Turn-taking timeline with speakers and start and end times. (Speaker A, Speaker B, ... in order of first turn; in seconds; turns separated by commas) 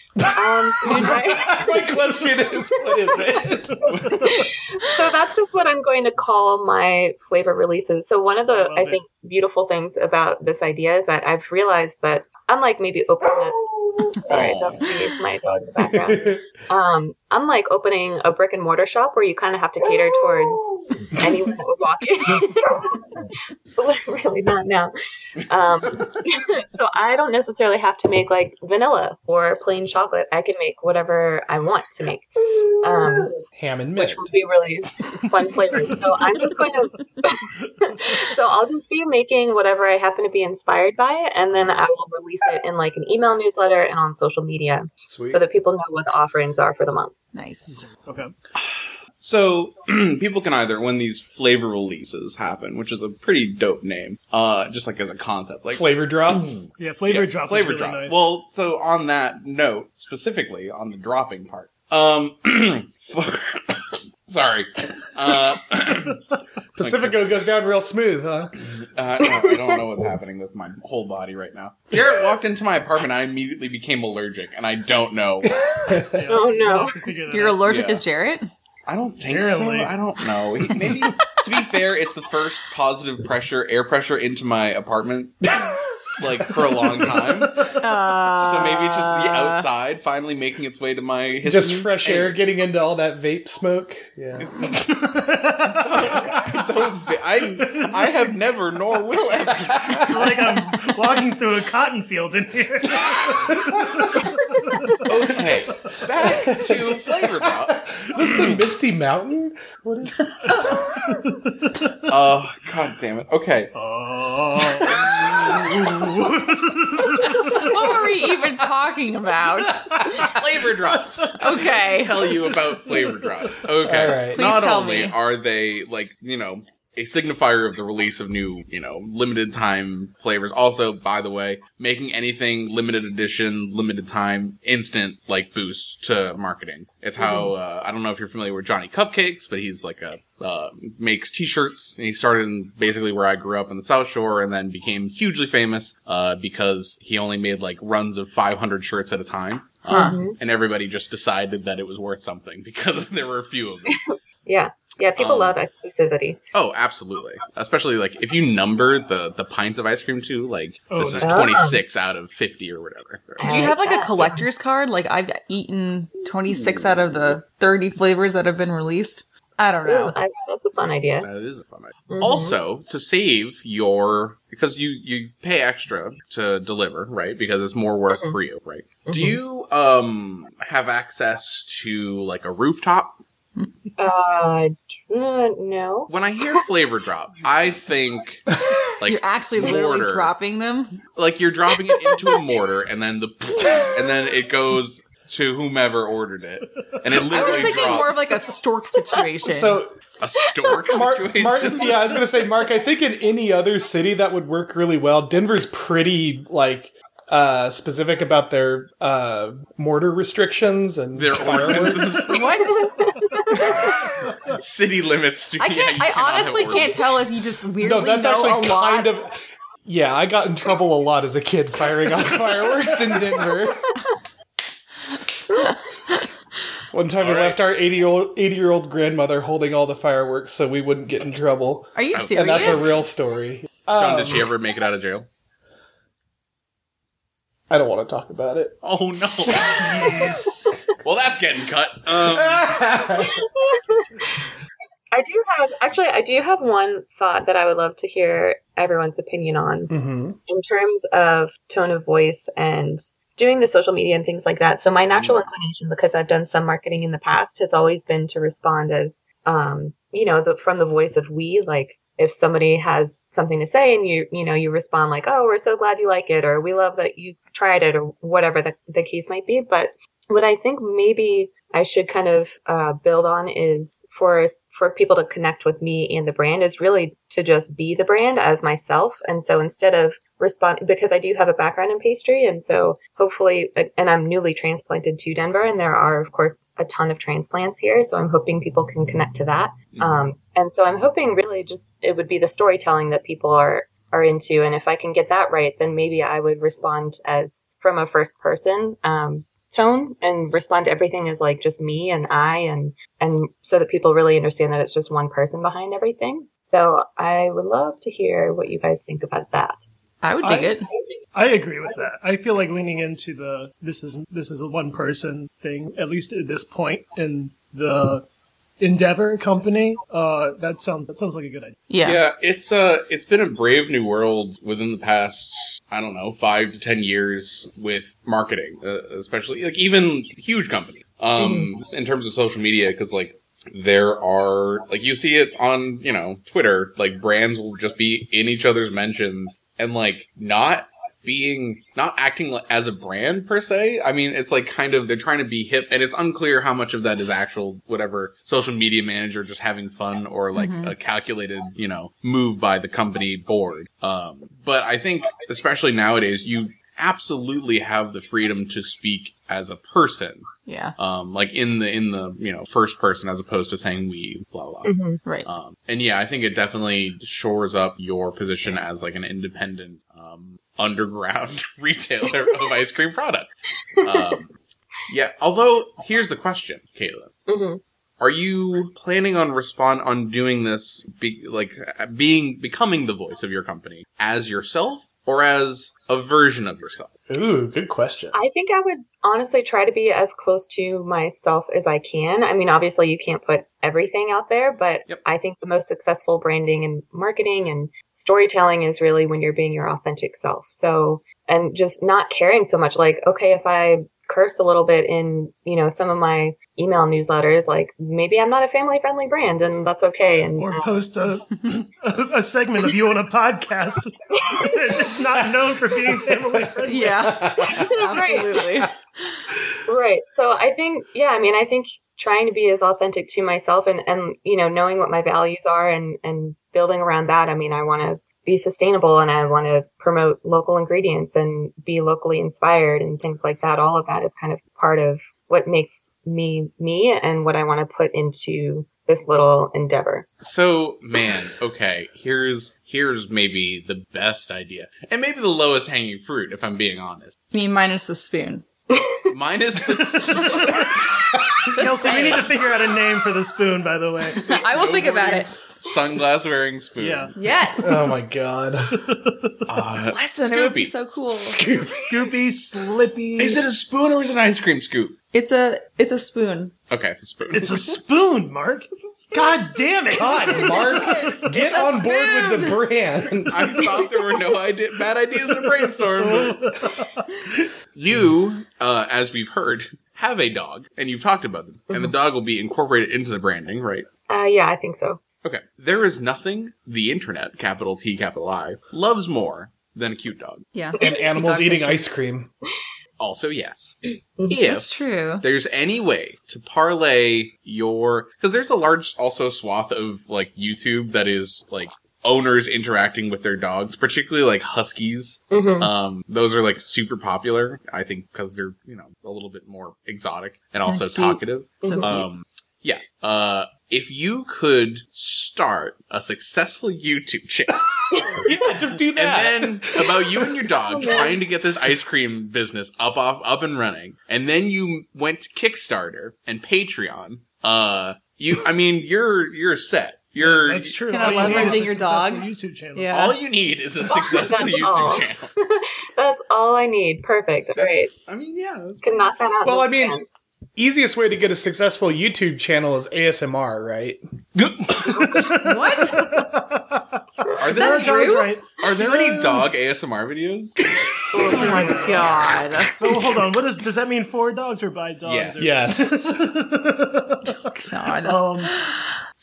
Speaker A: 0.2-4.1, Speaker B: 0.3-2.1, Speaker B: 4.0-33.4, Speaker C: 8.5-9.0, Speaker D: 14.2-14.9, Speaker A: 15.9-16.4, Speaker A: 33.5-34.3, Speaker B: 34.0-47.1, Speaker A: 45.0-45.4, Speaker E: 47.3-47.9, Speaker C: 47.7-48.3, Speaker D: 48.6-66.2, Speaker A: 55.7-56.5, Speaker C: 56.8-58.2, Speaker A: 66.8-68.5, Speaker D: 66.8-67.4, Speaker D: 68.6-75.7, Speaker B: 69.4-69.8, Speaker A: 75.8-76.2, Speaker C: 76.1-77.6, Speaker B: 76.3-77.1, Speaker E: 77.3-78.5, Speaker D: 77.6-78.0, Speaker D: 78.9-85.5, Speaker C: 79.2-80.0, Speaker D: 86.2-87.8, Speaker E: 87.8-89.7, Speaker D: 88.3-92.4, Speaker A: 91.4-94.7, Speaker D: 94.4-94.8, Speaker C: 94.8-96.6, Speaker D: 95.6-100.4, Speaker C: 97.6-98.4, Speaker A: 99.7-100.2, Speaker C: 100.0-105.0, Speaker A: 103.6-104.1, Speaker D: 105.0-108.6, Speaker A: 106.3-110.5, Speaker C: 111.1-111.8, Speaker D: 112.1-113.7, Speaker C: 113.7-117.9, Speaker D: 114.9-115.9, Speaker E: 117.2-120.4, Speaker C: 120.0-120.3, Speaker D: 120.2-154.0, Speaker E: 121.4-122.3, Speaker A: 123.8-124.5, Speaker E: 124.3-125.2, Speaker B: 137.2-137.5, Speaker B: 149.9-150.4, Speaker E: 149.9-150.2, Speaker B: 153.9-156.4, Speaker D: 155.2-155.6, Speaker D: 156.5-163.7, Speaker C: 160.9-161.5, Speaker B: 161.2-161.8, Speaker B: 163.4-164.5, Speaker E: 163.4-170.2, Speaker B: 169.8-171.3, Speaker D: 171.2-183.2, Speaker B: 172.1-172.6, Speaker B: 178.1-178.4, Speaker B: 179.1-179.4, Speaker B: 184.0-186.1, Speaker D: 186.1-188.5, Speaker D: 189.0-190.3, Speaker E: 189.1-191.0, Speaker D: 191.2-198.2, Speaker E: 197.3-199.8, Speaker C: 197.3-198.0, Speaker A: 199.4-200.0, Speaker D: 200.2-202.2, Speaker A: 200.9-212.4, Speaker D: 211.2-212.4, Speaker E: 212.3-213.1, Speaker B: 212.8-214.0, Speaker D: 214.5-217.1, Speaker E: 215.6-219.1, Speaker A: 217.8-224.0, Speaker A: 226.9-234.5, Speaker D: 227.2-227.6, Speaker E: 231.9-233.0, Speaker D: 232.1-233.0, Speaker D: 233.9-235.3, Speaker A: 237.7-240.4, Speaker D: 238.8-240.2, Speaker C: 239.7-240.7, Speaker D: 241.0-242.8, Speaker A: 242.2-243.5, Speaker B: 243.2-244.2, Speaker B: 245.1-249.9, Speaker A: 249.9-250.4, Speaker B: 250.5-309.9, Speaker D: 255.1-255.4, Speaker D: 289.9-290.2, Speaker E: 310.2-310.9, Speaker C: 310.4-310.8, Speaker C: 311.3-318.2, Speaker C: 318.8-321.8, Speaker E: 321.9-322.2, Speaker D: 322.0-377.3, Speaker B: 331.4-331.7, Speaker E: 350.6-350.9, Speaker E: 360.7-360.9, Speaker B: 364.8-365.2, Speaker B: 377.5-377.8, Speaker D: 378.2-387.1, Speaker A: 387.3-388.4, Speaker B: 388.3-410.9, Speaker C: 410.6-417.4, Speaker B: 414.4-415.2, Speaker A: 415.4-416.7, Speaker E: 416.9-419.0, Speaker A: 417.2-418.1, Speaker B: 417.6-418.6, Speaker B: 419.9-440.3, Speaker D: 440.4-447.4, Speaker E: 447.5-448.6, Speaker B: 448.9-449.2, Speaker D: 449.3-450.8, Speaker E: 451.7-452.5, Speaker C: 451.7-454.5, Speaker D: 454.4-457.3, Speaker E: 454.4-455.5, Speaker C: 457.0-458.1, Speaker E: 457.4-458.0, Speaker A: 457.8-459.0, Speaker C: 458.9-459.7, Speaker D: 459.7-460.9, Speaker E: 460.1-461.7, Speaker A: 461.2-462.4, Speaker C: 461.9-463.6, Speaker D: 463.4-465.2, Speaker E: 465.3-466.7, Speaker D: 466.9-468.0, Speaker C: 467.5-471.4, Speaker D: 469.1-469.5, Speaker A: 470.1-473.9, Speaker E: 470.5-472.8, Speaker D: 473.5-476.6, Speaker C: 476.2-477.7, Speaker D: 477.9-484.1, Speaker B: 484.3-485.2, Speaker D: 485.4-490.7, Speaker E: 490.7-492.2, Speaker A: 491.0-492.5, Speaker D: 493.2-494.0, Speaker D: 494.5-517.8, Speaker E: 494.5-495.4, Speaker B: 505.5-505.9, Speaker E: 510.9-512.1, Speaker B: 511.8-512.2, Speaker B: 518.1-518.5, Speaker A: 518.3-520.8, Speaker D: 519.1-531.9, Speaker C: 530.4-533.2, Speaker E: 531.1-533.4, Speaker D: 533.1-535.5, Speaker B: 534.1-538.1, Speaker D: 537.8-539.3, Speaker B: 539.0-540.3, Speaker A: 539.6-540.2, Speaker A: 540.8-544.2, Speaker D: 544.6-545.1, Speaker C: 544.9-549.7, Speaker E: 545.6-546.3, Speaker D: 547.6-551.6, Speaker E: 547.7-548.5, Speaker B: 551.3-552.3, Speaker C: 551.5-552.3, Speaker E: 551.5-553.2, Speaker C: 553.0-558.7, Speaker D: 555.2-555.8, Speaker A: 555.6-556.3, Speaker E: 557.6-559.1